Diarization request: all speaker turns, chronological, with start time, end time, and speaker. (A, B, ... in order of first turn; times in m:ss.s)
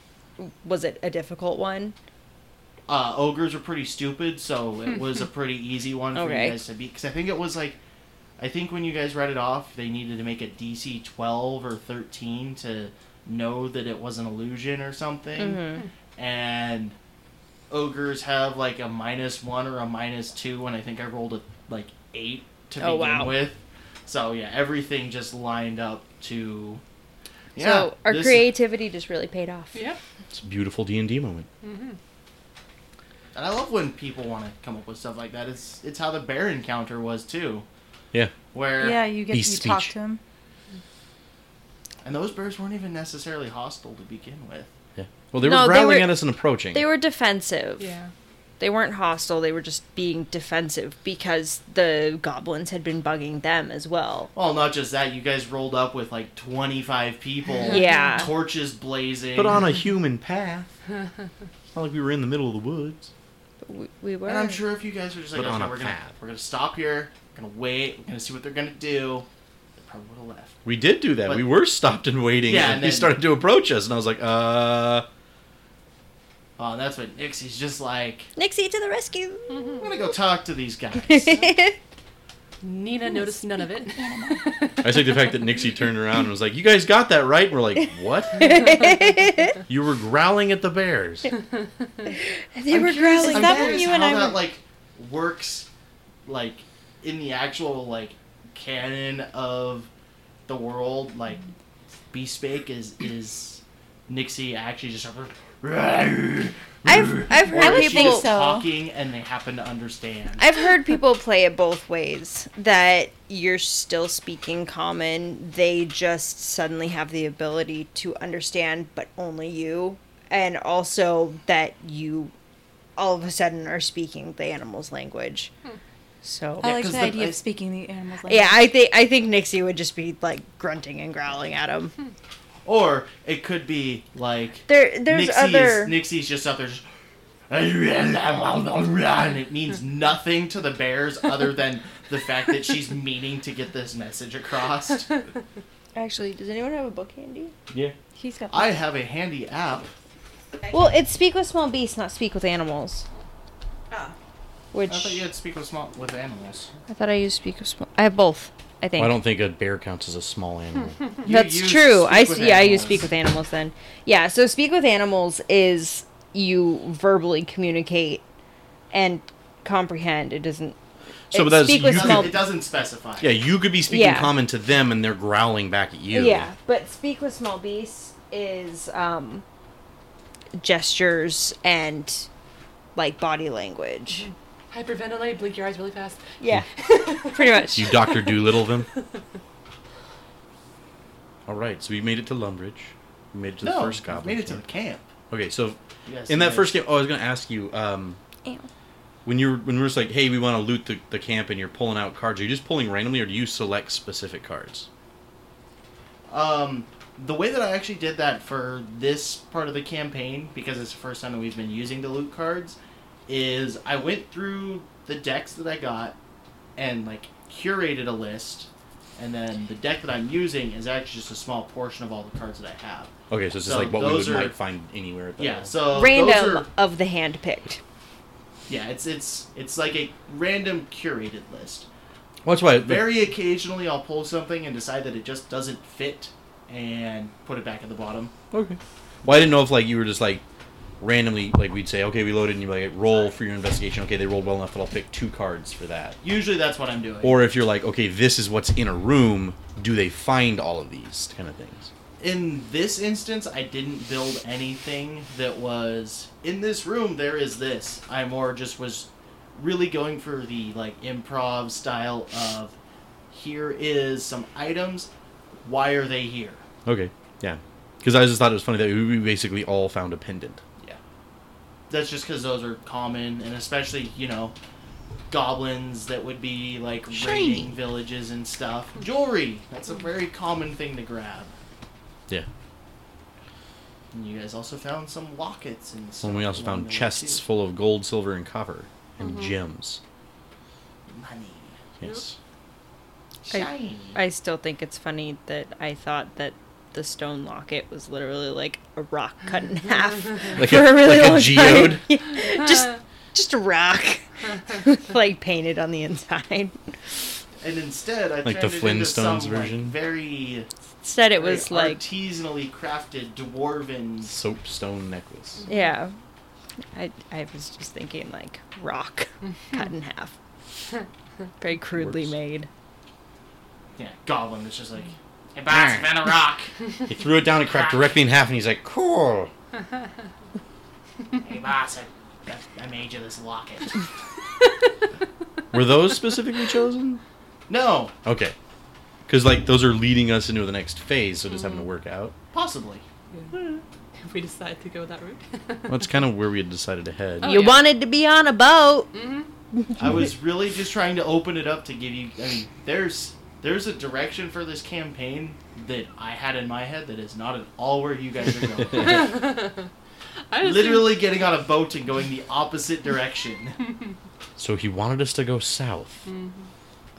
0:00.4-0:02.0 A
0:02.9-0:07.8 B
0:06.2-0:06.6 A
0:08.4-0:17.0 B
0:15.4-0:15.8 A
0:17.7-0:26.8 B
0:22.8-0:23.4 A
0:27.6-0:28.5 B
0:27.6-0:29.8 A
0:29.7-0:30.0 C
0:30.3-0:31.5 D
0:31.6-0:32.0 C
0:33.3-0:37.6 B
0:38.5-0:39.0 B
0:38.8-0:40.2 E
0:39.3-0:39.9 D
0:42.0-0:44.7 B
0:45.0-0:46.9 D
0:45.4-0:47.9 A
0:47.8-0:48.1 C
0:48.6-0:54.3 A
0:54.4-0:59.6 B
0:57.7-0:58.4 A
0:57.7-0:58.3 C
0:59.4-1:00.7 D
1:01.7-1:03.1 D
1:03.6-1:04.6 A
1:04.2-1:09.3 B
1:05.3-1:06.1 D
1:09.8-1:10.6 B
1:10.6-1:15.1 D
1:12.5-1:13.2 B
1:16.6-1:18.3 B
1:18.4-1:19.8 A
1:19.8-1:21.5 B
1:21.1-1:21.8 A
1:22.6-1:25.1 C
1:24.0-1:24.5 E
1:24.8-1:28.6 D
1:28.3-1:29.6 A
1:29.7-1:31.3 D
1:32.5-1:33.9 A
1:32.7-1:35.7 B
1:32.7-1:34.4 E
1:36.2-1:39.9 B
1:40.5-1:41.5 B
1:42.1-1:50.5 B
1:46.8-1:48.3 A
1:47.5-1:48.7 E
1:50.4-2:02.3 A
2:03.0-2:05.5 A
2:06.2-2:06.8 A
2:06.6-2:08.7 E
2:06.6-2:07.4 B
2:08.3-2:11.9 A
2:12.6-2:16.8 B
2:14.7-2:16.0 A
2:17.5-2:25.1 B
2:26.0-2:27.5 A
2:28.2-2:28.8 E
2:28.5-2:29.9 B
2:30.7-2:33.0 A
2:34.7-2:35.2 A
2:34.9-2:36.7 B
2:36.9-2:39.2 A
2:39.0-2:41.0 D
2:41.2-2:43.1 B
2:41.3-2:48.2 A
2:48.9-2:50.8 A
2:51.3-2:52.4 D
2:51.3-2:52.5 A
2:51.9-2:53.4 B
2:53.2-2:56.5 D
2:53.9-2:54.4 A
2:56.1-2:59.4 A
3:00.6-3:02.3 A
3:03.0-3:04.3 A
3:04.2-3:07.8 C
3:06.4-3:08.2 A
3:07.7-3:08.9 D
3:11.5-3:14.6 D
3:13.6-3:15.1 B
3:15.3-3:18.2 D
3:16.1-3:16.8 B
3:19.2-3:24.9 D
3:26.3-3:36.2 B
3:36.8-3:43.1 B
3:43.3-3:45.8 D
3:43.6-3:44.6 B
3:45.4-3:46.7 B
3:45.9-3:47.8 A
3:48.7-3:51.9 B
3:52.4-3:53.2 D
3:52.8-3:58.3 B
3:58.5-4:00.4 D
4:01.0-4:06.2 D
4:06.2-4:07.4 B
4:07.2-4:11.9 D
4:12.2-4:22.8 B
4:23.3-4:25.1 B
4:25.6-4:26.6 B
4:26.9-4:30.6 D
4:31.9-4:34.6 B
4:35.3-4:41.5 B
4:37.1-4:37.7 D
4:44.1-4:47.4 B
4:46.2-4:50.0 D
4:49.2-4:49.5 C
4:51.1-4:51.8 B
4:52.0-4:52.4 D
4:53.4-4:54.2 B
4:53.5-5:07.2 A
5:00.6-5:02.0 D
5:07.6-5:10.7 B
5:08.4-5:10.0 D
5:11.0-5:12.0 A
5:11.3-5:14.3 B
5:14.3-5:15.6 D
5:15.6-5:15.9 C
5:15.7-5:16.1 A
5:16.9-5:20.3 A
5:21.6-5:22.7 A
5:21.9-5:22.4 D
5:24.0-5:26.7 B
5:25.7-5:26.3 D
5:27.1-5:29.5 D
5:27.7-5:28.1 B
5:31.4-5:34.0 B
5:35.7-5:37.2 D
5:37.7-5:38.1 B
5:38.2-5:38.6 D
5:39.3-5:42.3 D
5:41.5-5:41.8 C
5:42.5-5:43.0 B
5:44.2-5:46.0 C
5:45.9-5:47.7 D
5:47.4-5:47.9 C
5:47.4-5:49.1 A
5:49.1-5:49.5 C
5:50.0-5:59.3 B
5:50.0-5:50.3 D
5:59.0-5:59.9 C
6:00.5-6:01.2 C
6:00.6-6:03.8 B
6:04.6-6:06.2 D
6:06.3-6:06.7 C